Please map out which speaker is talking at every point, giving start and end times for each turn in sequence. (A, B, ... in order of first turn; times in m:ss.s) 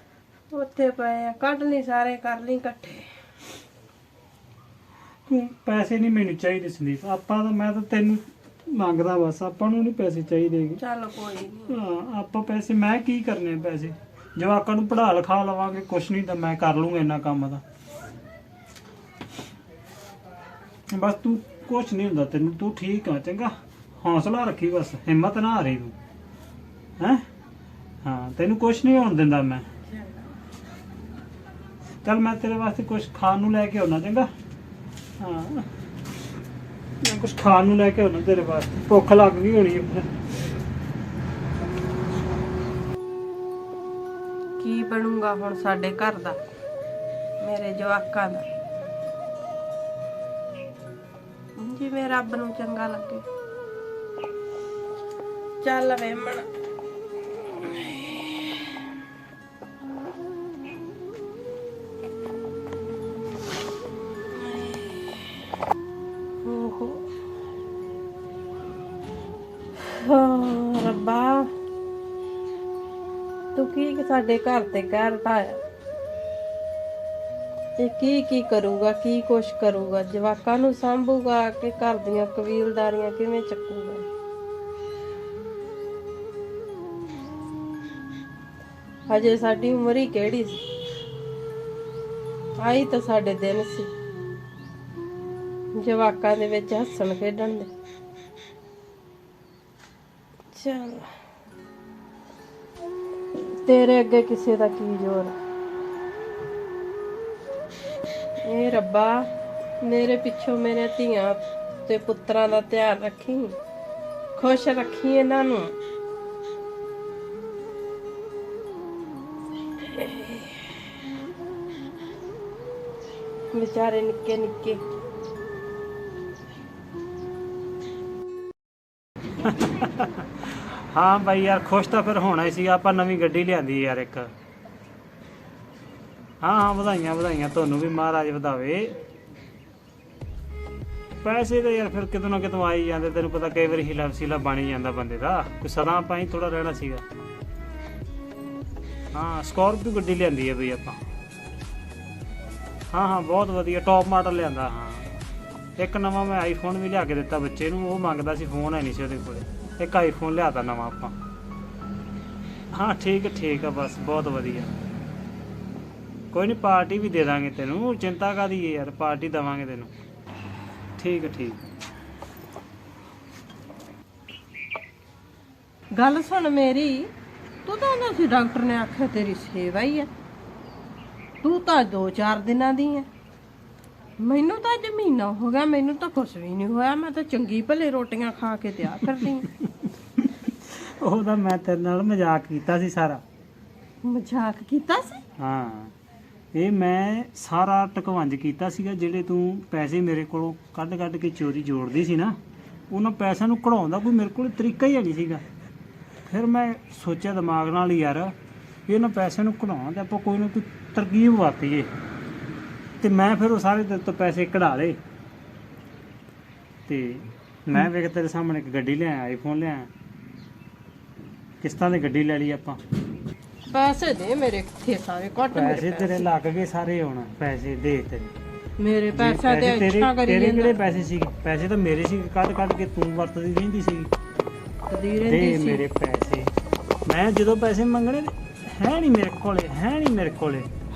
0:00.5-0:03.1 A
0:05.3-0:10.8 B
0:10.8-0:11.7 A
0:11.7-0:17.6 B
0:20.9-0:25.9 B
0:27.0-0:27.2 B
0:28.0-0:29.6 B
0:29.8-0:30.3 A
0:32.0-0:34.3 B
0:35.2-0:35.7 B
0:37.0-0:40.1 B
0:44.6-0:46.4 A
0:47.4-0:48.4 A
0:51.6-0:53.2 A
0:55.6-0:56.5 A
0:57.6-0:58.7 A
1:04.3-1:05.3 A
1:06.4-1:07.1 A
1:09.8-1:11.5 A
1:13.5-1:15.6 A
1:17.8-1:24.0 A
1:29.1-1:30.6 A
1:32.6-1:33.9 A
1:35.7-1:37.7 A
1:40.5-1:41.1 A
1:43.5-1:45.4 A
1:48.4-1:49.3 A
1:49.8-1:53.5 A
1:54.4-1:55.7 A
1:59.8-2:00.8 A
2:03.5-2:04.8 A
2:09.4-2:14.3 B
2:16.4-2:19.0 B
2:21.2-2:27.0 B
2:29.1-2:31.0 B
2:32.9-2:35.1 B
2:35.8-2:41.2 B
2:42.7-2:44.7 B
2:46.3-2:49.9 B
2:51.0-2:51.6 B
2:55.9-2:57.1 A
2:57.6-3:00.1 A
3:01.4-3:03.1 A
3:04.2-3:09.5 A
3:09.8-3:13.2 B
3:14.0-3:15.2 A
3:15.4-3:15.9 B
3:16.5-3:22.4 B
3:22.9-3:25.4 B
3:26.2-3:28.3 B
3:28.9-3:31.9 B
3:33.0-3:35.0 B
3:36.9-3:39.9 B
3:41.6-3:42.8 B
3:43.7-3:46.3 A
3:45.5-3:48.3 B
3:48.8-3:50.7 A
3:49.1-3:54.1 B
3:54.9-3:55.8 A
3:55.2-3:56.5 B
3:57.0-4:00.7 B